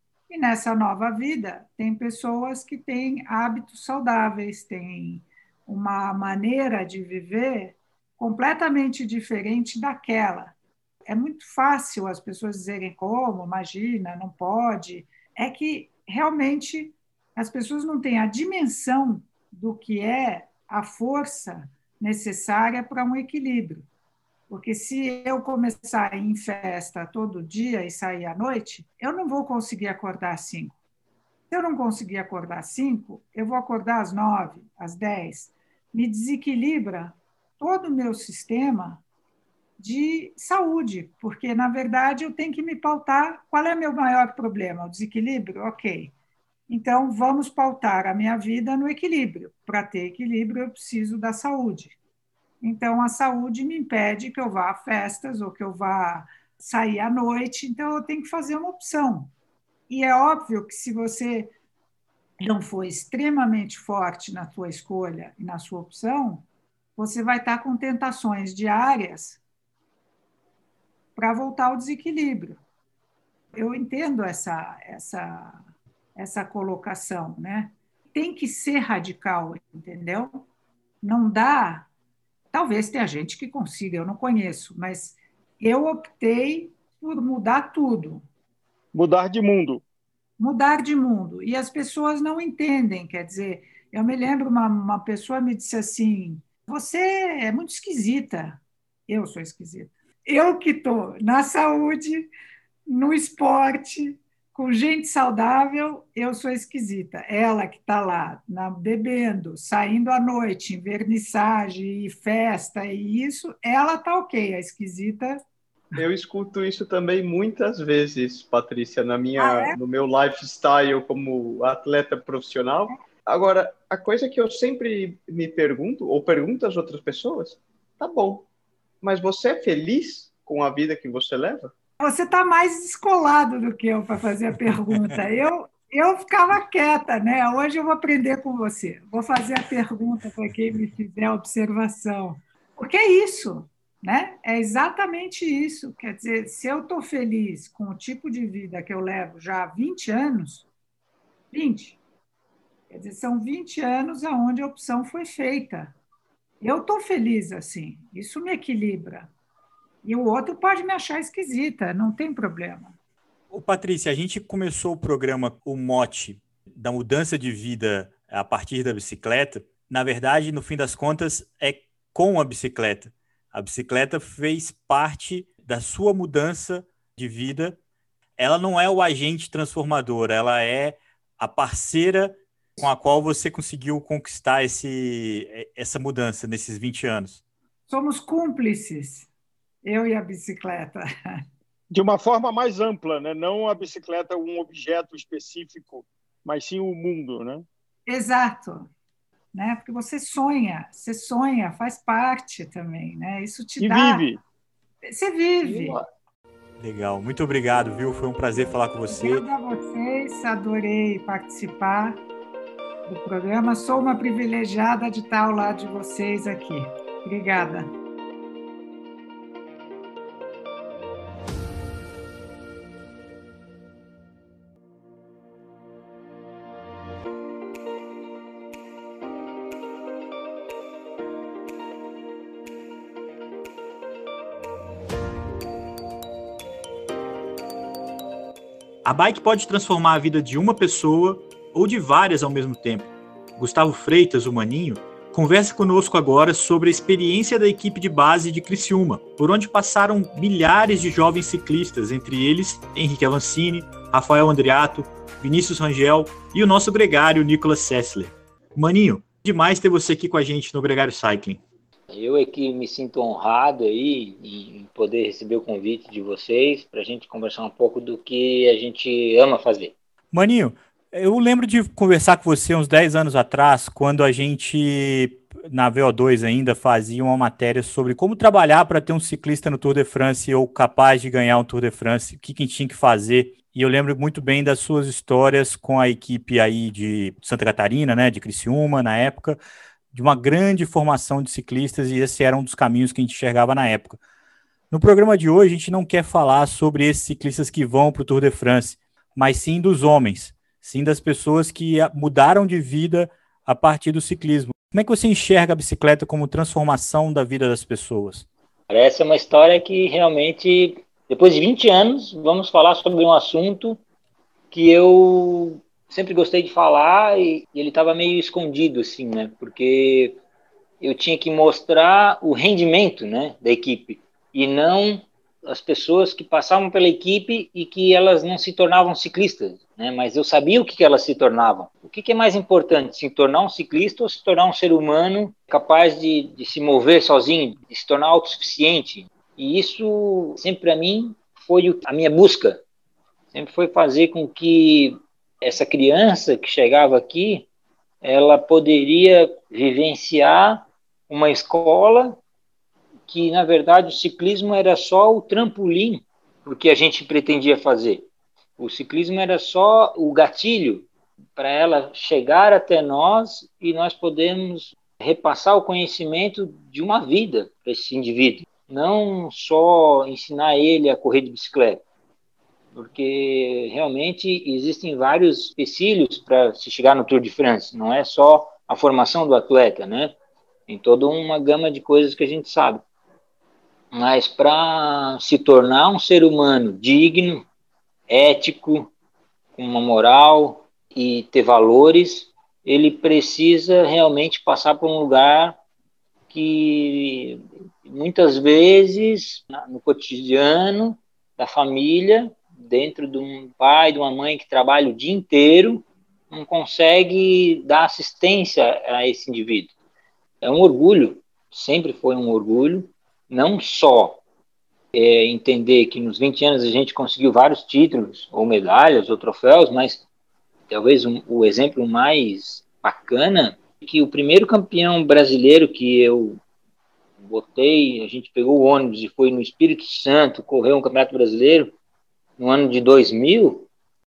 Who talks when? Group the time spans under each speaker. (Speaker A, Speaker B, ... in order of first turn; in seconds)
Speaker A: 0.3-23.9, 24.5-30.8, 31.5-39.0, 39.8-46.1, 46.7-52.0, 52.6-59.3, 59.9-61.5, 62.4-66.4, 67.0-69.4, 71.2-72.6, 73.5-75.6, 76.1-80.5, 81.0-81.9, 82.5-88.2, 90.4-102.3, 102.8-115.4, 119.4-119.8, 132.0-150.7, 151.5-152.0, 152.9-155.9, 156.6-159.3, 160.0-162.9, 187.9-189.3, 189.8-191.4, 198.1-198.9, 199.5-204.3, 205.0-206.0, 209.1-212.2, 213.1-217.9
Speaker B: 88.9-89.8, 191.9-197.6, 203.8-204.4
Speaker C: 116.0-128.4, 129.0-131.7, 205.6-205.9
Speaker D: 163.5-177.8, 178.4-187.4, 206.8-209.4, 239.0-261.6, 270.3-289.6, 290.1-294.2, 294.9-308.5
Speaker E: 262.1-269.9, 308.9-314.0, 314.7-320.4, 321.0-342.8, 343.5-347.7, 348.2-352.4, 353.3-372.0, 372.9-380.3, 380.9-383.0, 384.1-387.6, 388.3-389.1, 389.7-395.8, 396.5-409.9, 410.6-414.4, 415.1-420.2, 420.9-426.6, 427.4-431.9, 432.6-433.9